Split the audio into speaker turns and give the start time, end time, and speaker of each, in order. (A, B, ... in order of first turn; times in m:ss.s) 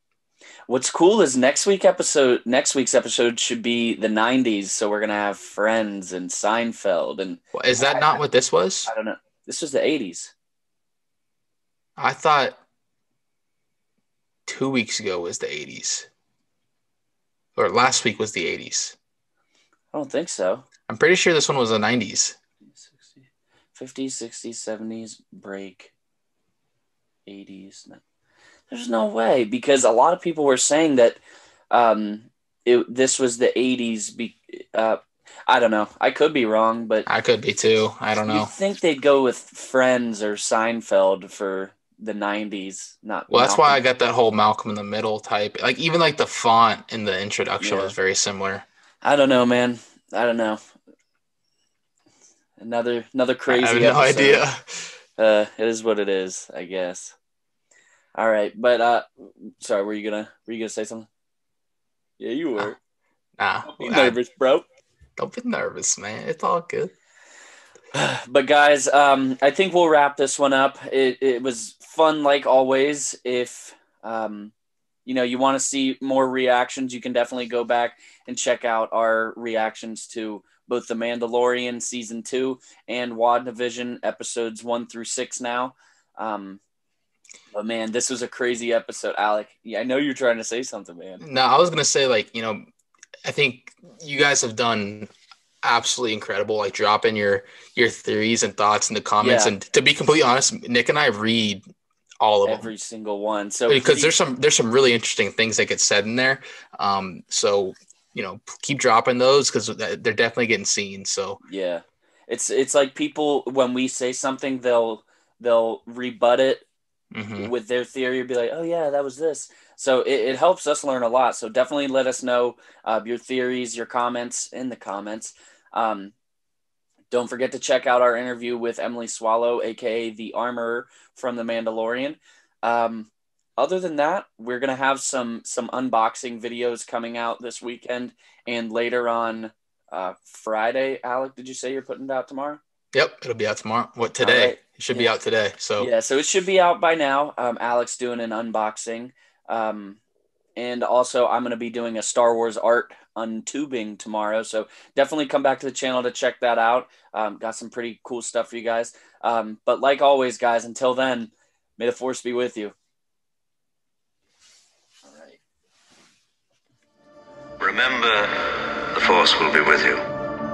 0:00.7-0:08.2 A
0:07.5-0:08.9 B
0:08.9-0:10.3 A
0:12.0-0:12.6 B
0:14.4-0:16.1 B
0:17.6-0:18.9 B
0:19.9-0:20.6 A
0:20.9-0:22.4 B
0:22.7-0:25.9 A
0:27.2-0:28.0 A
0:28.7-0:31.2 A
0:31.7-0:37.1 A
0:37.0-0:38.5 B
0:38.2-0:43.8 A
0:43.3-0:48.6 B
0:47.6-0:47.9 A
0:49.0-0:50.6 A
0:52.6-0:54.4 A
0:53.5-0:54.9 B
0:55.2-0:57.1 A
0:58.1-1:01.1 A
1:02.2-1:02.8 A
1:03.4-1:04.2 B
1:03.6-1:04.6 A
1:05.2-1:06.9 B
1:07.9-1:14.5 A
1:15.0-1:26.6 A
1:27.5-1:31.2 A
1:31.2-1:32.6 B
1:33.2-1:35.1 B
1:35.6-1:41.6 B
1:39.2-1:39.5 A
1:42.2-1:42.7 B
1:42.4-1:44.1 A
1:43.7-1:51.4 B
1:51.4-1:56.6 A
1:57.1-1:57.5 B
1:57.4-2:06.1 A
2:07.1-2:22.6 A
2:22.9-2:25.9 B
2:24.2-2:25.1 A
2:25.8-2:30.0 A
2:30.6-2:42.7 A
2:45.0-2:45.4 A
2:47.6-2:50.0 C